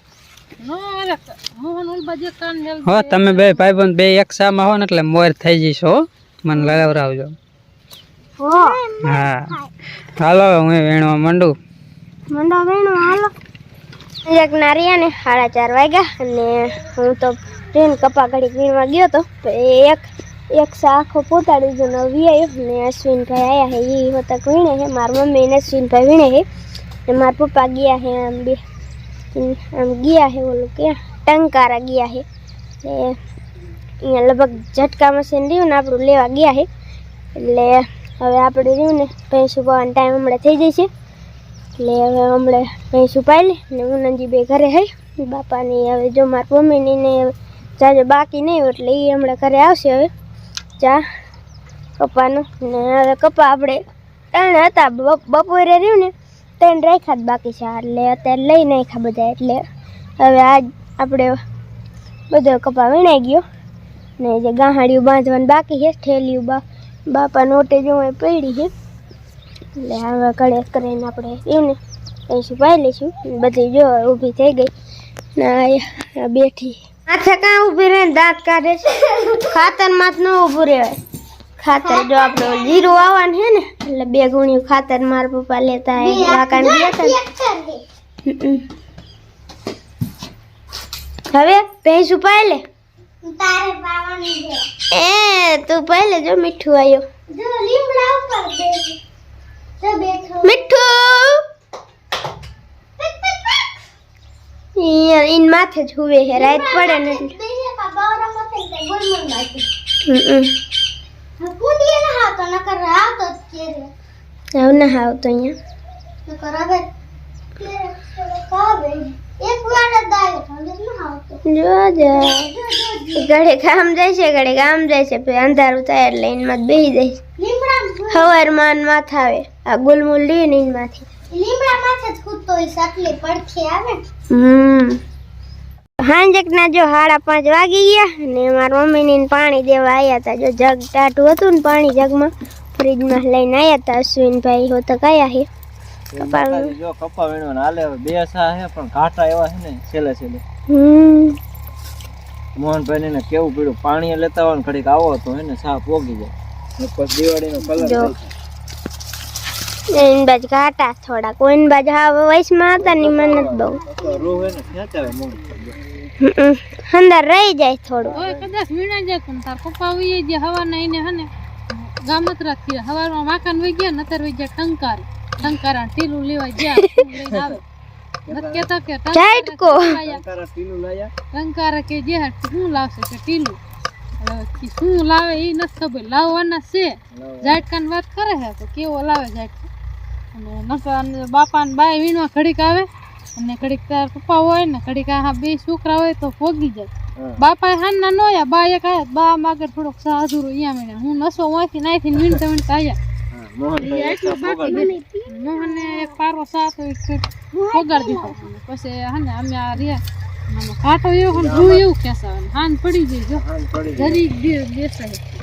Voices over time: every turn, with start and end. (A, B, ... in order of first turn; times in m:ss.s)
0:00.6-0:03.6 A
0:02.8-0:07.4 B
0:06.5-0:06.9 C
0:08.4-0:08.8 D
0:08.5-0:09.7 C
0:09.0-0:11.5 B
0:12.3-0:13.3 D
0:14.3-0:26.4 D
0:27.1-0:28.6 D
0:29.3-0:32.2 D
0:32.8-0:33.1 D
0:34.0-0:36.7 D
0:37.4-0:40.9 D
0:41.8-0:50.1 D
0:52.0-0:53.8 D
0:54.3-0:59.6 D
1:00.2-1:01.4 D
1:02.3-1:03.4 D
1:04.2-1:08.7 D
1:09.8-1:11.8 D
1:12.3-1:14.7 D
1:15.4-1:21.0 D
1:21.6-1:27.2 D
1:21.7-1:23.0 C
1:26.0-1:27.8 C
1:28.3-1:28.6 D
1:31.3-1:32.6 D
1:33.2-1:34.7 C
1:34.9-1:37.0 D
1:37.3-1:39.0 C
1:39.8-1:40.7 C
1:40.4-1:41.4 D
1:43.0-1:43.7 C
1:44.8-1:47.3 D
1:46.3-1:49.7 C
1:50.1-1:50.5 D
1:51.4-1:53.9 C
1:54.6-1:55.6 D
1:56.3-1:56.9 C
1:57.6-2:01.4 C
2:01.5-2:02.5 D
2:02.0-2:03.4 C
2:03.2-2:07.2 D
2:07.4-2:08.4 C
2:08.1-2:11.1 D
2:11.3-2:14.0 C
2:14.3-2:15.0 D
2:16.0-2:25.5 D
2:26.2-2:26.8 D
2:26.2-2:30.4 E
2:30.7-2:31.4 D
2:32.6-2:38.3 E
2:37.8-2:38.2 D
2:39.9-2:43.8 D
2:43.1-2:43.4 E
2:43.7-2:44.3 C
2:44.0-2:45.8 E
2:46.2-2:48.2 D
2:48.1-2:57.6 A
2:58.3-3:00.2 A
2:59.1-3:00.0 D
3:00.2-3:01.1 E
3:01.3-3:03.6 A
3:04.2-3:09.7 A
3:10.3-3:23.0 A
3:23.3-3:24.8 E
3:23.8-3:35.2 A
3:24.0-3:26.1 C
3:24.7-3:25.0 D
3:27.5-3:28.4 C
3:31.4-3:31.7 E
3:33.5-3:34.0 E